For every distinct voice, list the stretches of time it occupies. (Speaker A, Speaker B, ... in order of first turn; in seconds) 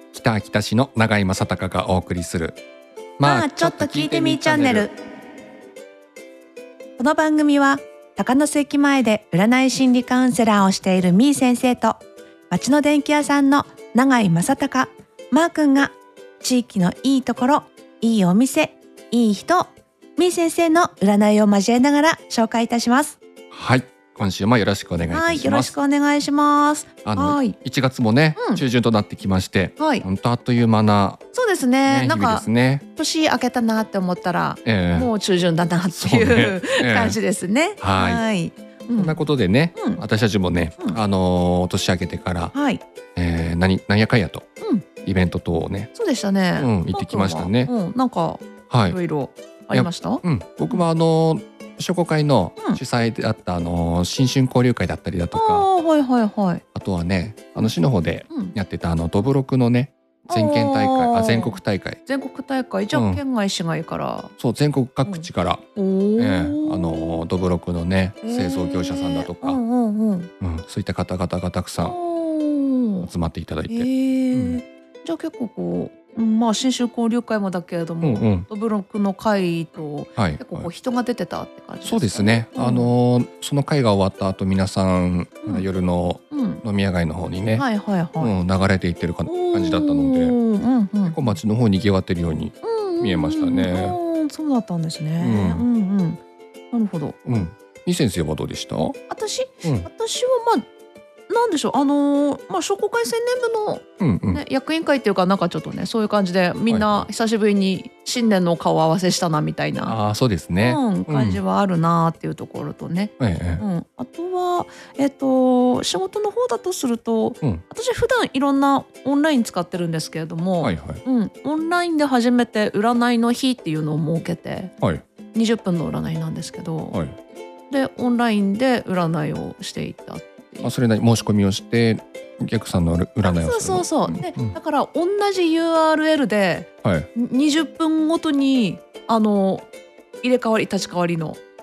Speaker A: 0.1-2.6, 3.2-4.9, 23.5-25.7, 27.0-31.2, 31.9-32.8, 34.6-35.1, 36.0-37.2, 37.8-38.2, 39.0-42.5, 43.1-44.5, 45.0-45.9, 46.6-47.7, 48.7-49.0, 49.7-55.7, 56.7-62.0, 62.9-63.2, 64.4-65.6, 66.2-69.6, 70.4-72.0, 73.0-74.6, 78.0-78.5, 80.2-80.7, 81.8-87.7, 88.2-90.4, 91.1-94.0, 95.2-95.7, 97.2-99.0, 104.0-104.4, 106.7-107.0, 109.8-111.4, 113.2-113.6, 120.6-121.0, 130.6-134.6, 136.8-137.1
Speaker B: 3.2-4.9, 7.0-23.2, 25.1-27.6, 28.4-28.6, 29.8-30.1, 31.3-39.2, 39.8-40.0, 42.5-42.8, 45.9-50.8, 55.3-56.6, 58.3-58.5, 60.3-64.3, 65.0-67.2, 68.2-70.3, 71.8-73.1, 73.7-82.9, 86.3-86.6, 87.5-88.3, 89.2-91.3, 92.6-96.2, 96.7-97.2, 99.1-100.7, 101.3-110.0, 110.6-124.7, 125.3-127.0, 127.7-130.7, 133.2-139.7, 140.2-141.4